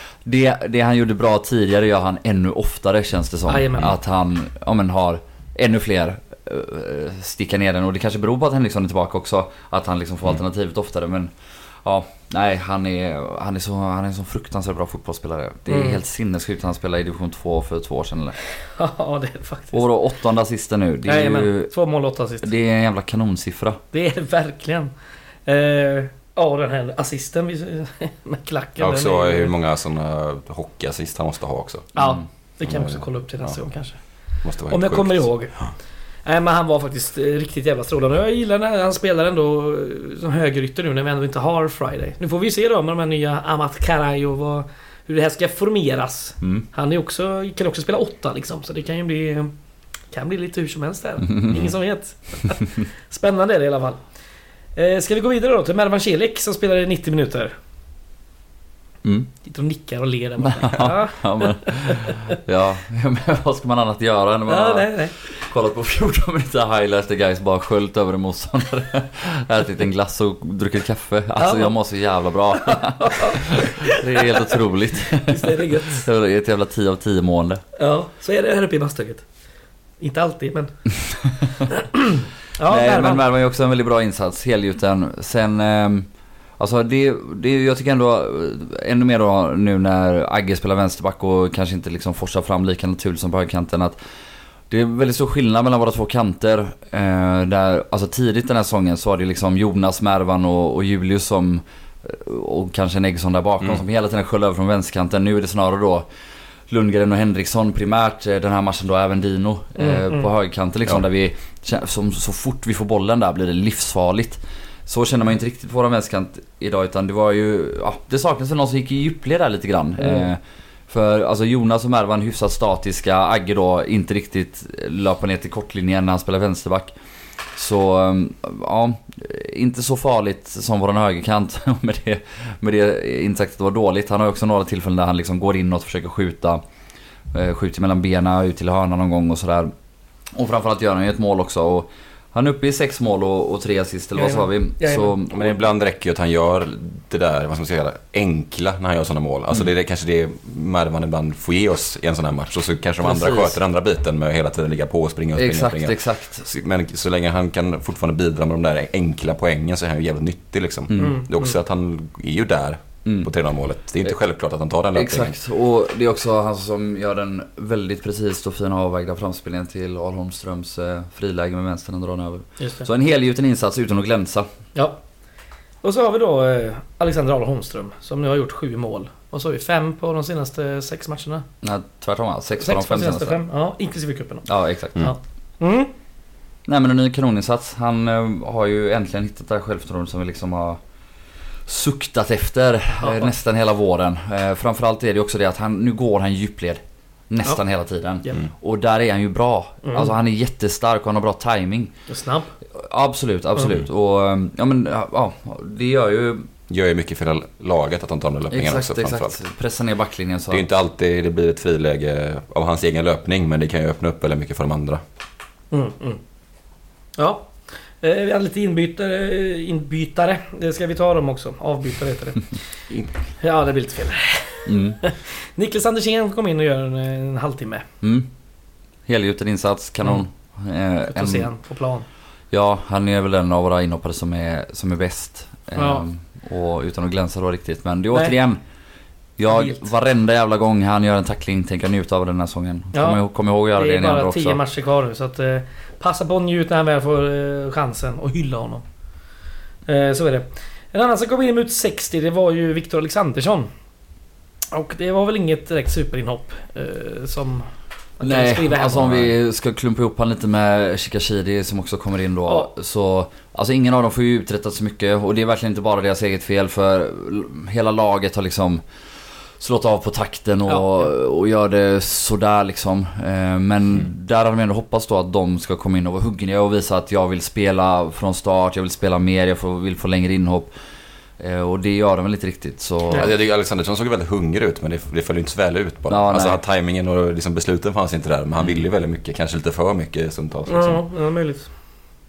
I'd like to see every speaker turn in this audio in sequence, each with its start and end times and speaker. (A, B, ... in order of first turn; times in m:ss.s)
0:00.2-0:18.4 A
0:03.5-0:03.9 B
0:15.7-0:16.0 B
0:18.7-0:19.8 B
0:19.7-0:21.7 A
0:21.1-0:22.5 B
0:22.4-0:23.8 A
0:23.9-0:24.9 B
0:25.5-0:29.5 B
0:28.8-0:32.0 C
0:32.0-0:34.0 B
0:32.0-0:32.2 A
0:32.6-0:33.6 C
0:34.4-0:35.7 C
0:34.7-0:35.7 B
0:36.2-0:49.5 B
0:50.1-0:54.0 B
0:51.2-0:51.6 A
0:54.8-0:57.5 B
0:59.0-0:59.3 A
0:59.4-1:02.2 B
1:00.4-1:17.6 A
1:04.5-1:05.2 B
1:11.4-1:11.7 B
1:12.6-1:14.2 B
1:15.1-1:16.1 B
1:17.8-1:19.2 B
1:20.0-1:20.8 B
1:21.1-1:21.5 A
1:21.8-1:23.2 B
1:22.7-1:26.1 A
1:26.6-1:34.0 A
1:34.7-1:46.1 A
1:46.7-2:06.9 A
1:49.8-1:50.3 B
2:00.0-2:00.3 B
2:07.6-2:16.6 A
2:17.3-2:19.7 A
2:20.4-2:25.5 A
2:24.2-2:25.1 B
2:25.3-2:45.4 C
2:33.0-2:33.6 A
2:35.4-2:36.5 A
2:40.9-2:41.2 A
2:41.0-2:41.6 B
2:43.0-2:43.3 A
2:44.9-2:54.5 A
2:52.6-2:52.9 B
2:55.8-3:01.5 B
3:01.6-3:03.4 A
3:02.6-3:05.9 B
3:04.5-3:05.1 A
3:06.7-3:10.8 A
3:11.7-3:21.9 A
3:13.0-3:13.3 B
3:19.8-3:20.1 B
3:22.1-3:22.5 B
3:22.7-3:26.5 A
3:26.7-3:29.4 C
3:28.5-3:30.6 A
3:30.5-3:35.0 C
3:35.7-3:36.2 B
3:37.2-3:42.6 B
3:43.4-3:47.8 B
3:44.7-3:45.0 A
3:48.0-3:48.3 A
3:49.1-3:51.5 A
3:51.1-3:52.1 B
3:52.5-3:58.6 A
3:55.8-3:56.0 B
3:59.4-4:04.6 A
3:59.5-3:59.8 B
4:02.9-4:03.2 B
4:03.8-4:08.8 B
4:09.9-4:13.7 B
4:14.7-4:19.2 B
4:18.2-4:28.8 A
4:29.6-4:40.7 A
4:30.7-4:31.0 B
4:41.4-4:43.3 A
4:43.1-4:51.0 C
4:46.1-4:46.6 A
4:50.7-4:51.7 B